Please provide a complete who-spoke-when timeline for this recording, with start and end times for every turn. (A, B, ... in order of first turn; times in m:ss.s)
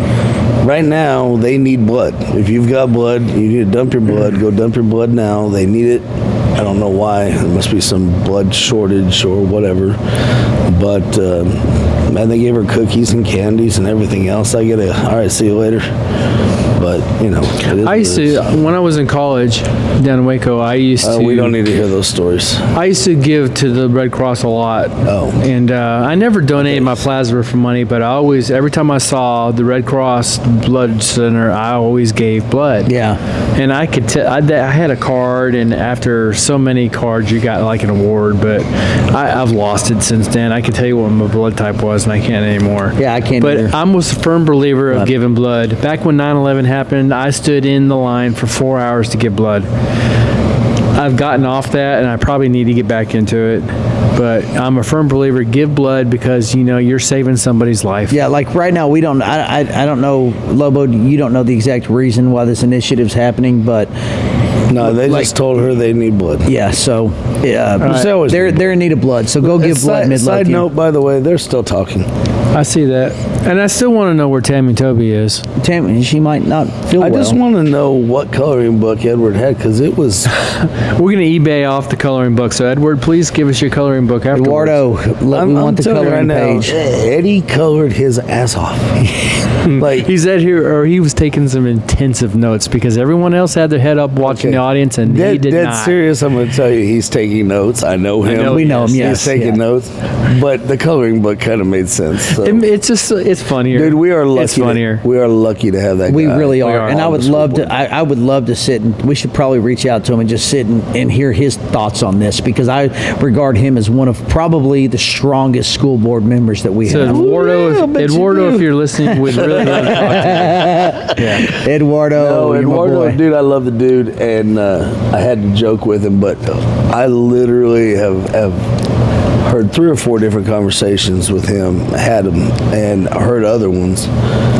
0:00.6-0:06.0 A
0:06.6-0:10.0 A
0:10.7-0:15.9 A
0:16.8-0:18.5 A
0:17.7-0:21.6 B
0:21.0-0:22.7 A
0:22.7-0:32.9 B
0:25.0-0:25.4 A
0:26.6-0:27.1 A
0:32.8-0:33.2 C
0:33.6-0:49.7 B
0:43.0-0:43.8 C
0:51.0-0:58.2 B
0:58.1-1:03.9 C
1:04.7-1:06.5 A
1:04.8-1:05.3 C
1:06.5-1:10.7 C
1:07.8-1:08.7 A
1:09.4-1:12.1 A
1:12.5-1:15.4 B
1:15.6-1:17.4 C
1:17.0-1:20.3 A
1:20.4-1:24.8 B
1:24.3-1:26.8 C
1:25.3-1:30.1 A
1:29.6-1:36.0 B
1:34.2-1:42.7 A
1:38.2-1:39.4 B
1:38.4-1:39.6 C
1:42.3-1:45.0 B
1:43.7-1:47.7 A
1:46.1-1:57.2 C
1:46.6-1:47.1 B
1:56.8-2:01.5 B
1:57.0-2:01.4 A
1:59.1-2:03.2 C
2:02.1-2:08.7 A
2:09.4-2:14.1 A